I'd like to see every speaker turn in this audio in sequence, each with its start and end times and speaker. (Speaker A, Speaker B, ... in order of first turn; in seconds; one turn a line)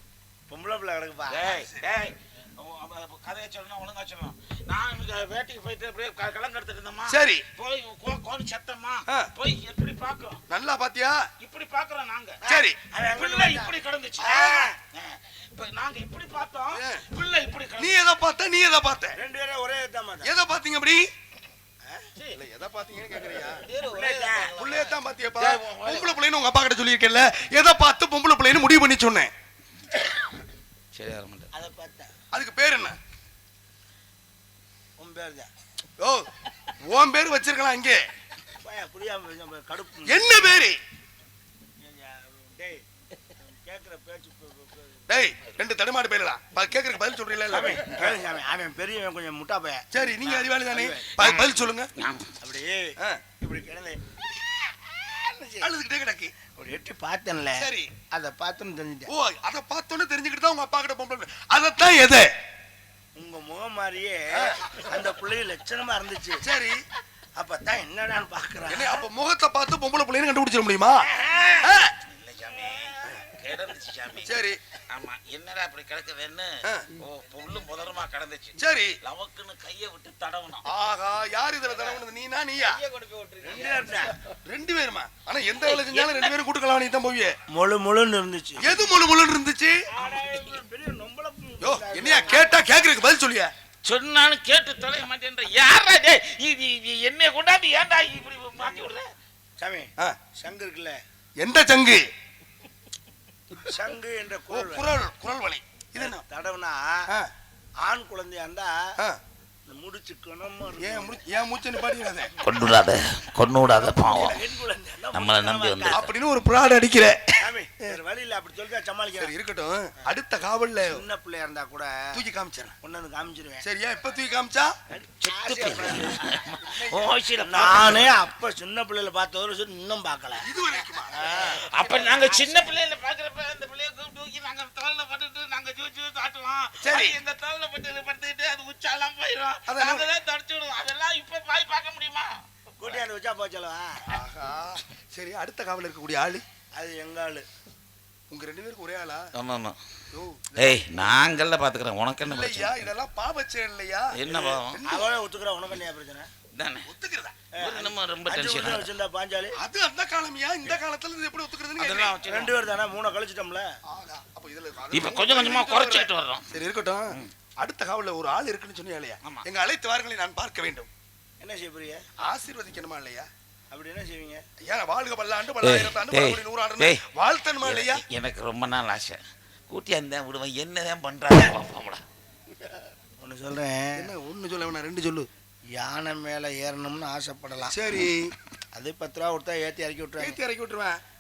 Speaker A: 0.5-1.6
Speaker B: 1.3-10.4
Speaker C: 1.5-1.9
Speaker C: 7.1-7.4
Speaker C: 10.5-11.2
Speaker B: 11.4-12.4
Speaker A: 12.4-14.7
Speaker C: 12.4-12.8
Speaker B: 13.1-18.0
Speaker C: 16.7-17.0
Speaker C: 17.8-19.2
Speaker A: 19.1-20.3
Speaker C: 20.2-21.1
Speaker C: 22.4-23.6
Speaker B: 23.6-26.1
Speaker A: 23.9-24.5
Speaker C: 24.5-29.3
Speaker B: 30.9-31.5
Speaker A: 31.5-32.1
Speaker C: 32.3-33.0
Speaker A: 35.0-35.5
Speaker C: 36.0-36.3
Speaker C: 36.8-38.0
Speaker A: 38.6-40.1
Speaker C: 40.1-40.8
Speaker A: 41.8-45.0
Speaker C: 45.1-48.1
Speaker A: 47.5-49.9
Speaker C: 49.9-51.9
Speaker A: 50.7-51.1
Speaker B: 51.2-52.3
Speaker A: 52.4-54.0
Speaker A: 54.9-55.7
Speaker C: 55.6-56.3
Speaker A: 56.5-59.1
Speaker C: 57.6-57.9
Speaker C: 59.1-62.3
Speaker A: 63.1-66.4
Speaker C: 66.4-66.8
Speaker A: 67.4-69.0
Speaker C: 68.7-71.1
Speaker A: 71.0-71.7
Speaker C: 71.6-71.9
Speaker B: 72.0-74.3
Speaker C: 74.2-74.6
Speaker B: 74.9-80.7
Speaker C: 78.6-79.0
Speaker C: 80.7-82.8
Speaker B: 82.7-84.0
Speaker A: 83.4-84.2
Speaker C: 84.3-87.4
Speaker B: 85.6-86.3
Speaker A: 87.5-88.7
Speaker C: 88.6-89.8
Speaker A: 89.9-92.4
Speaker B: 90.0-90.5
Speaker C: 91.6-93.5
Speaker B: 93.9-99.1
Speaker A: 99.6-101.0
Speaker C: 101.4-102.0
Speaker A: 103.6-104.9
Speaker C: 104.5-106.2
Speaker A: 106.0-107.1
Speaker A: 107.8-109.0
Speaker A: 109.7-111.2
Speaker C: 110.8-112.3
Speaker B: 112.4-114.4
Speaker A: 113.8-116.0
Speaker B: 115.1-116.1
Speaker C: 115.9-118.0
Speaker A: 117.4-119.3
Speaker C: 119.2-121.0
Speaker A: 120.9-122.1
Speaker C: 122.1-122.7
Speaker A: 122.8-123.6
Speaker C: 123.6-124.8
Speaker A: 124.9-126.3
Speaker B: 125.2-128.1
Speaker C: 126.6-127.1
Speaker A: 127.4-130.5
Speaker C: 130.4-131.1
Speaker A: 131.1-132.7
Speaker B: 131.2-142.4
Speaker C: 136.8-137.2
Speaker C: 139.7-140.1
Speaker A: 142.8-144.1
Speaker C: 144.1-146.4
Speaker A: 146.8-147.4
Speaker C: 148.3-149.3
Speaker B: 149.3-149.8
Speaker C: 150.1-151.1
Speaker B: 150.6-152.9
Speaker C: 152.2-155.1
Speaker B: 154.1-154.8
Speaker A: 154.8-156.3
Speaker B: 156.5-156.9
Speaker C: 156.9-157.4
Speaker A: 157.5-159.6
Speaker B: 157.6-158.9
Speaker C: 159.6-162.2
Speaker B: 161.8-162.5
Speaker A: 162.3-163.7
Speaker C: 163.9-170.9
Speaker B: 164.9-166.5
Speaker A: 171.4-172.0
Speaker C: 172.2-173.3
Speaker A: 173.7-174.4
Speaker C: 174.6-178.0
Speaker B: 175.6-177.0
Speaker B: 177.6-182.0
Speaker A: 183.2-184.1
Speaker C: 183.9-185.3
Speaker A: 185.7-187.7
Speaker C: 187.7-188.3
Speaker A: 188.7-190.4
Speaker C: 190.2-191.0